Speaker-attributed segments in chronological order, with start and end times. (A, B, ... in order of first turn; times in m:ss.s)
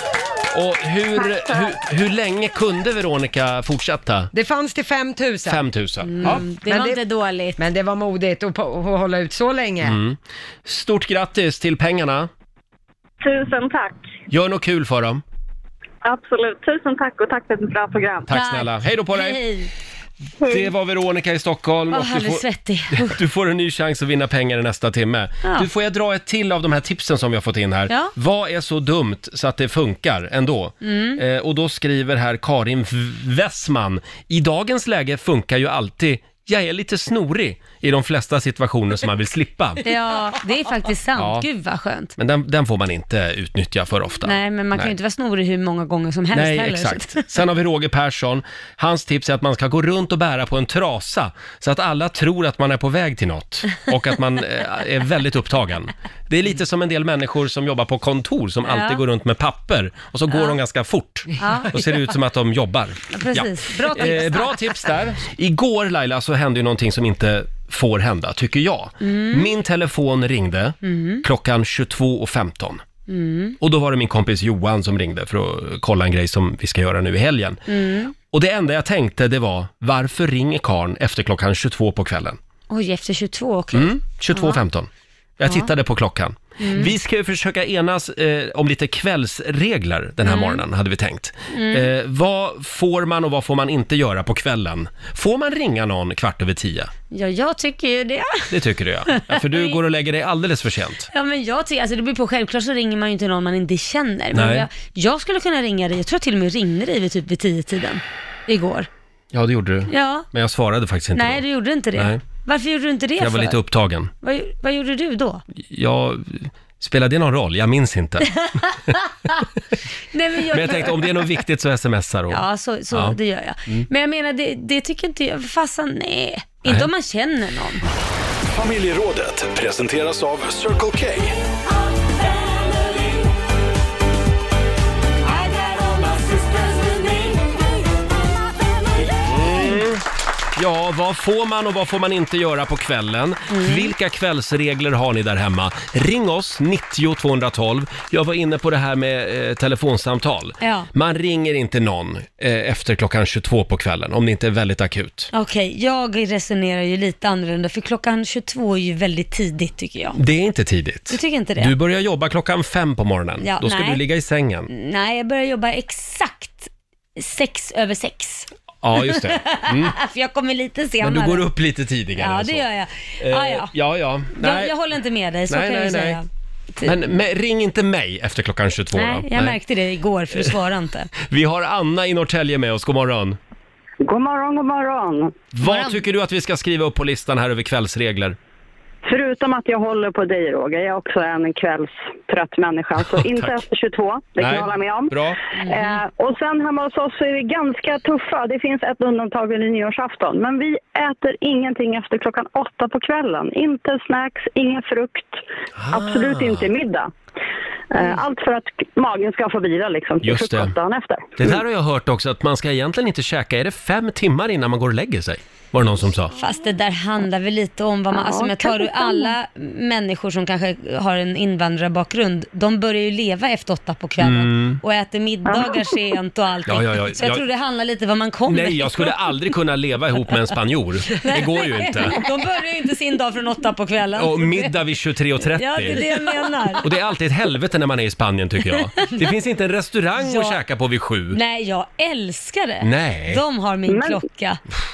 0:00.5-0:04.3 A
0:04.3-0:05.6 B
0:05.4-0:06.4 A
0:06.0-0:07.6 C
0:06.2-0:07.0 B
0:07.6-0:10.0 B
0:09.8-0:12.3 A
0:13.2-0:14.0 D
0:14.3-0:15.2 A
0:16.0-0:18.3 D
0:18.3-0:19.4 A
0:18.3-0:19.7 C
0:20.4-0:39.8 A
0:21.9-0:23.2 C
0:27.9-0:28.1 C
0:30.8-0:31.2 C
0:39.8-0:42.1 C
0:41.2-0:41.4 A
0:42.2-0:44.9 A
0:44.2-0:47.3 C
0:46.3-1:12.8 A
0:58.6-0:59.0 C
1:01.4-1:01.8 C
1:03.1-1:04.7 C
1:09.0-1:09.5 C
1:10.8-1:11.2 C
1:13.1-1:13.6 C
1:13.6-1:17.6 A
1:17.7-1:18.1 C
1:18.3-1:22.4 A
1:22.7-1:24.6 C
1:23.7-1:36.9 A
1:25.4-1:25.7 C
1:26.6-1:26.9 C
1:30.2-1:30.6 C
1:31.5-1:31.9 C
1:37.1-1:38.5 C
1:38.5-1:41.1 A
1:39.1-1:39.8 C
1:41.1-1:48.9 C
1:44.3-1:44.7 A
1:49.3-1:52.2 A
1:49.9-1:50.3 C
1:51.1-1:53.6 C
1:53.2-1:54.1 A
1:54.2-1:55.4 C
1:55.6-1:58.3 A
1:58.4-1:59.4 C
2:00.1-2:01.2 C
2:00.5-2:03.8 A
2:02.3-2:07.8 C
2:06.6-2:06.9 A
2:08.5-2:11.4 E
2:15.2-2:17.4 C
2:19.2-2:20.0 A
2:19.5-2:19.8 C
2:20.6-2:35.3 A
2:23.5-2:23.9 C
2:30.6-2:30.9 C
2:35.3-2:40.2 C
2:40.1-2:44.7 A
2:41.1-2:41.7 C
2:43.4-2:44.0 C
2:44.7-2:48.5 C
2:48.8-2:50.0 A
2:49.0-2:51.5 C
2:51.0-2:52.6 A
2:52.2-2:53.7 C
2:53.2-2:54.7 A
2:54.3-2:56.2 C
2:55.5-2:56.2 A
2:56.8-2:59.6 A
2:58.9-3:01.1 C
3:01.2-3:03.4 A
3:04.0-3:05.4 D
3:05.6-3:08.4 A
3:05.6-3:06.0 C
3:09.0-3:25.4 D
3:13.0-3:13.6 A
3:14.4-3:15.4 A
3:15.6-3:16.0 C
3:25.8-3:26.7 A
3:25.9-3:27.1 D
3:27.9-3:31.4 D
3:30.2-3:30.7 A
3:31.4-3:36.3 A
3:36.3-3:49.2 C
3:38.1-3:39.3 D
3:44.2-3:44.8 A
3:45.5-3:46.0 D
3:46.7-3:47.4 A
3:48.5-3:52.2 A
3:51.1-3:54.7 C
3:54.2-3:56.1 A
3:55.5-3:56.9 C
3:56.8-4:01.4 A
3:59.0-3:59.3 C
4:00.2-4:00.6 C
4:01.3-4:04.6 C
4:02.8-4:03.4 A
4:03.9-4:04.2 D